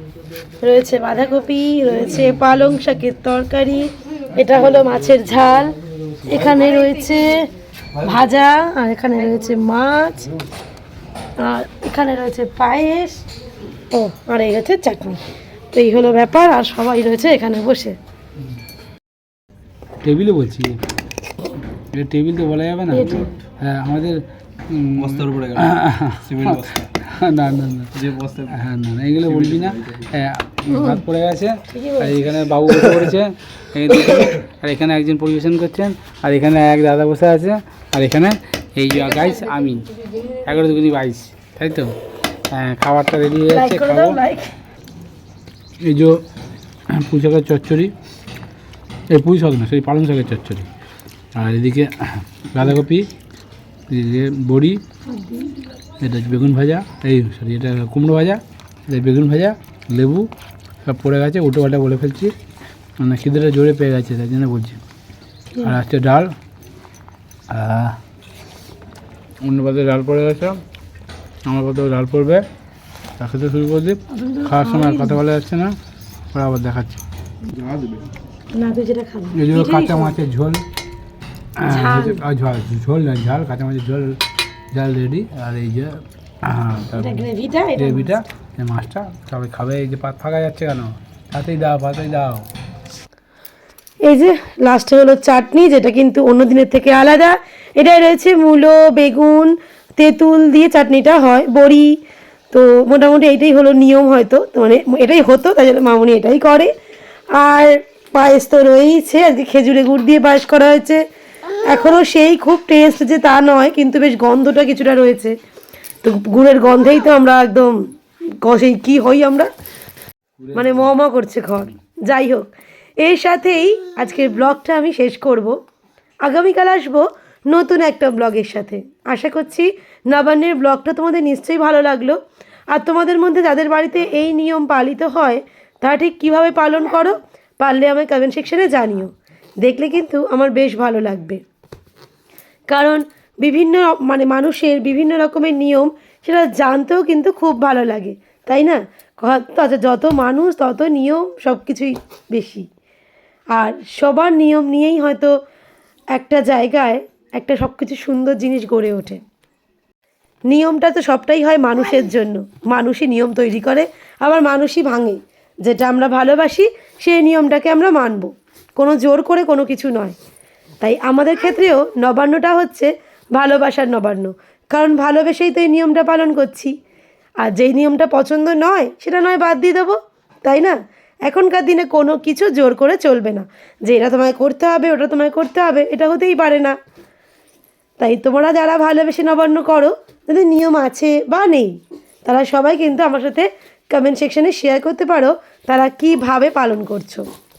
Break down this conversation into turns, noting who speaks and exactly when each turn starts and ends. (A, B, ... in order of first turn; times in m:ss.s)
0:00.6-0:10.3 A
0:06.2-0:06.5 B
0:11.4-0:13.2 A
0:13.9-0:18.0 A
0:20.0-0:20.8 B
0:21.9-0:27.9 B
0:22.9-0:23.3 A
0:25.0-0:25.7 C
0:26.2-0:26.9 C
0:28.0-0:28.6 C
0:28.5-0:39.9 B
0:29.2-0:30.0 C
0:30.7-0:31.0 A
0:31.7-0:32.3 A
0:40.4-0:42.0 B
0:42.5-0:44.2 B
0:43.5-0:44.5 A
0:45.8-0:46.2 B
0:46.9-0:47.9 B
0:49.1-0:50.7 B
0:51.3-0:53.1 B
0:53.9-0:54.8 B
0:56.0-1:00.3 B
1:00.8-1:02.3 B
1:03.0-1:04.8 B
1:05.6-1:06.3 B
1:07.5-1:08.0 B
1:09.4-1:10.6 B
1:11.4-1:12.4 B
1:13.2-1:15.8 B
1:14.1-1:15.2 A
1:16.3-1:17.0 B
1:17.5-1:18.1 C
1:18.5-1:20.2 A
1:19.4-1:20.6 B
1:21.6-1:24.2 B
1:21.6-1:22.2 A
1:24.7-1:32.5 B
1:27.0-1:28.1 A
1:34.0-1:42.0 A
1:42.5-1:46.7 A
1:47.3-1:51.0 A
1:51.6-1:55.3 A
1:56.0-1:57.9 A
1:58.4-1:59.5 A
2:00.4-2:00.9 B
2:00.5-2:02.5 A
2:03.0-2:05.6 A
2:06.2-2:12.2 A
2:12.7-2:21.4 A
2:22.7-2:32.6 A
2:33.5-2:35.3 A
2:36.1-2:39.2 A
2:40.5-2:50.2 A
2:50.8-2:56.7 A
2:57.4-3:06.7 A
3:08.0-3:17.2 A